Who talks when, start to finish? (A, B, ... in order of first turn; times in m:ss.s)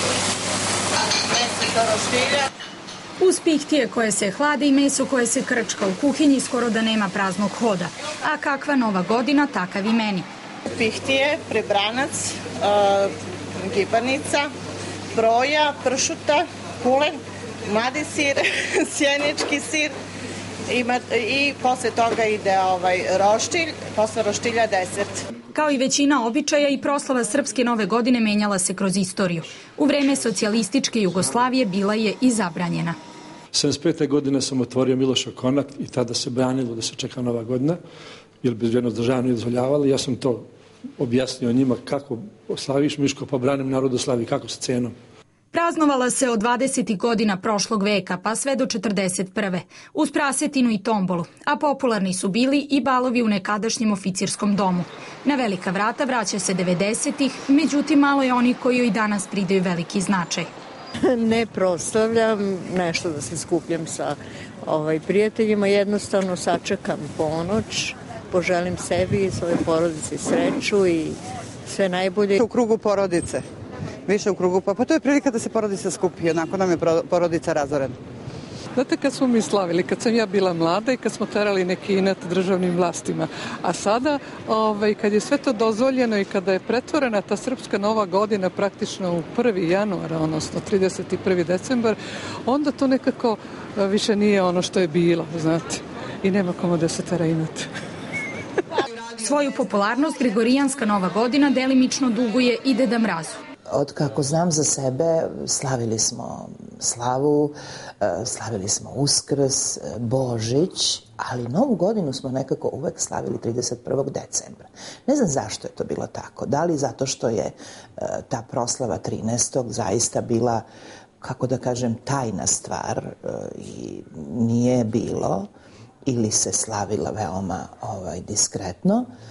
0:01.3-0:02.5 A
0:03.2-0:10.3 B
0:10.8-0:13.1 A
0:13.6-0:14.5 A
0:15.2-0:17.2 A
0:17.7-0:19.9 A
0:20.7-0:25.2 A
0:25.5-0:33.0 B
0:33.5-0:37.8 C
0:38.4-0:40.4 C
0:41.0-0:44.9 C
0:45.5-1:00.5 B
1:01.1-1:12.4 D
1:12.4-1:13.4 E
1:14.1-1:18.0 E
1:18.8-1:37.7 F
1:39.2-1:43.4 B
1:43.7-2:00.6 G
2:01.2-2:05.5 G
2:06.1-2:09.1 G